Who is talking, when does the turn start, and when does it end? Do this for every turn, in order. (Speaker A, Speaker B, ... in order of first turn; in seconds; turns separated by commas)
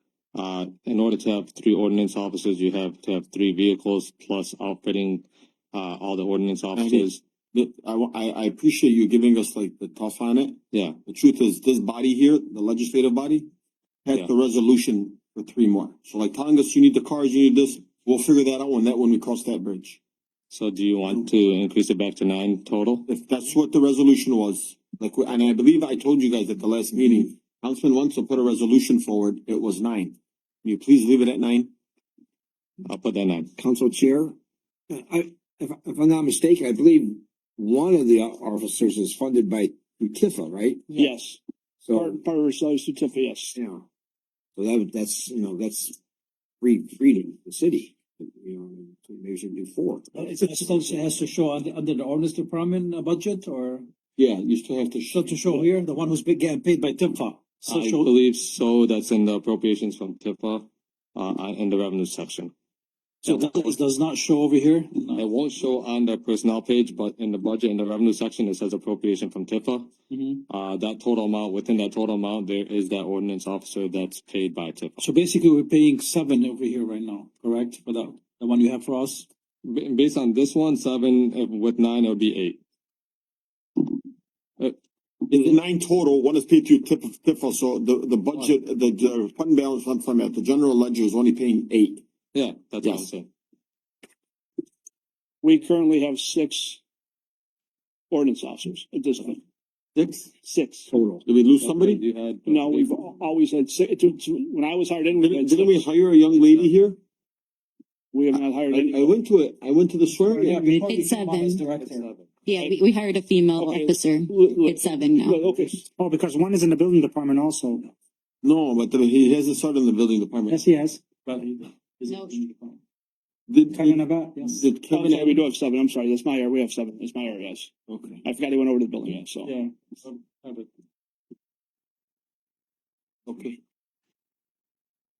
Speaker A: 0.3-7.2, Speaker B: 6.8-13.5, Speaker A: 10.7-11.0, Speaker B: 14.1-20.0, Speaker A: 20.5-23.1, Speaker B: 23.1-31.7, Speaker A: 32.9-33.5, Speaker C: 33.6-34.3, Speaker C: 34.9-41.0, Speaker D: 40.9-41.4, Speaker C: 41.8-42.2, Speaker D: 41.9-43.6, Speaker C: 43.5-43.9, Speaker C: 44.6-46.0, Speaker C: 46.6-50.8, Speaker E: 50.1-53.9, Speaker B: 54.2-55.7, Speaker E: 55.1-58.1, Speaker A: 57.6-62.5, Speaker E: 63.2-65.2, Speaker A: 63.2-63.8, Speaker A: 65.2-69.9, Speaker E: 70.1-70.4, Speaker A: 70.5-75.0, Speaker E: 75.0-79.3, Speaker A: 79.7-82.6, Speaker B: 85.3-92.0, Speaker A: 92.3-93.3, Speaker B: 92.8-93.1, Speaker D: 95.4-96.8, Speaker D: 98.1-99.4, Speaker B: 100.0-100.3, Speaker D: 100.4-100.9, Speaker C: 100.9-101.2, Speaker B: 101.2-102.0, Speaker A: 101.6-103.1, Speaker D: 102.5-105.9, Speaker B: 105.2-107.0, Speaker D: 108.1-109.1, Speaker B: 108.4-110.7, Speaker F: 110.3-111.0, Speaker E: 110.5-112.1, Speaker G: 110.8-111.7, Speaker A: 111.8-112.3, Speaker G: 112.5-115.5, Speaker D: 113.6-115.8, Speaker F: 116.0-117.9, Speaker B: 118.4-120.6, Speaker F: 120.5-121.2, Speaker E: 121.3-122.7, Speaker G: 122.1-122.4, Speaker B: 123.5-125.4, Speaker F: 123.7-124.5, Speaker D: 124.9-127.7, Speaker B: 127.9-128.2, Speaker D: 128.2-129.5, Speaker E: 129.5-130.7, Speaker B: 133.3-133.6